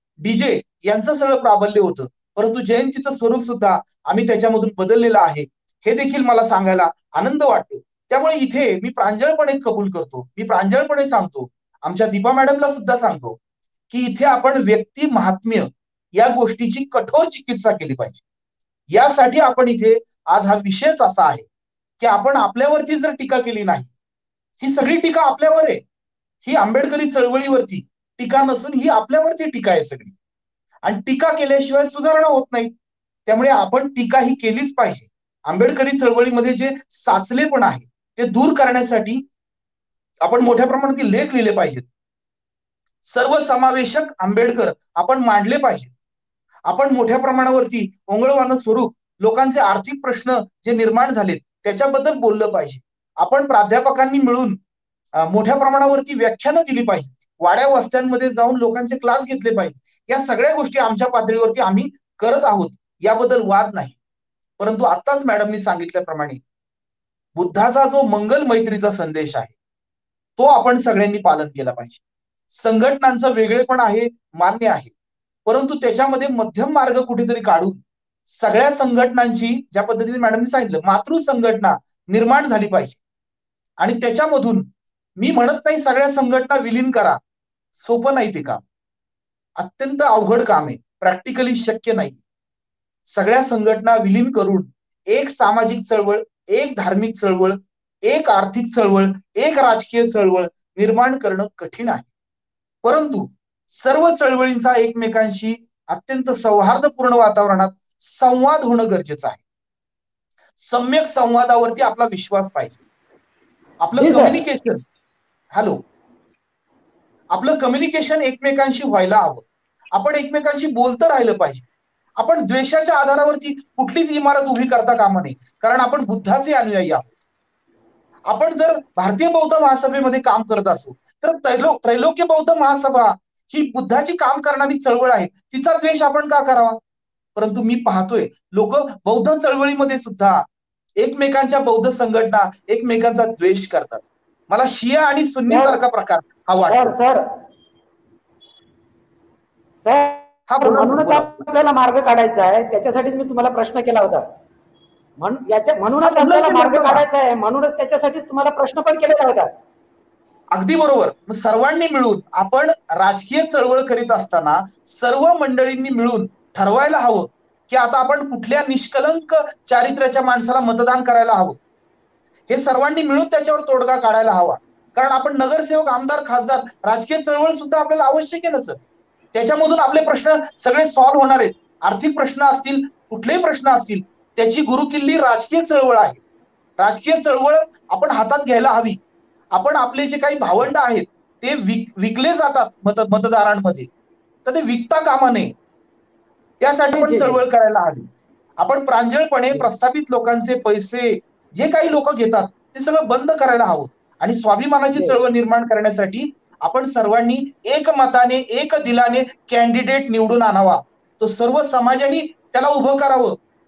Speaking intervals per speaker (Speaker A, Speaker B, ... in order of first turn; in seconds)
Speaker A: 0.2-13.4, 13.9-18.2, 18.9-21.5, 22.0-23.9, 24.6-25.8, 26.4-30.1, 30.9-32.7, 33.3-39.2, 40.2-41.9, 43.1-45.9, 46.7-54.6, 55.2-64.0, 64.6-66.4, 67.4-69.6, 70.4-72.0, 72.5-74.9, 75.5-77.8, 78.4-83.0, 83.8-84.7, 85.2-87.2, 87.8-88.6, 89.6-92.2, 93.1-102.1, 102.8-109.4, 110.6-112.8, 113.8-114.8, 117.3-127.1, 128.3-136.8, 137.4-140.5, 141.0-147.0, 150.5-151.3, 155.9-157.1, 160.5-171.6, 172.5-178.8, 179.3-186.2, 186.8-189.0, 189.5-193.9, 194.4-195.5, 196.6-198.1, 198.6-213.4
Speaker B: 114.0-114.4, 145.5-145.8, 146.7-147.2, 149.8-154.2, 155.2-159.5, 196.9-197.4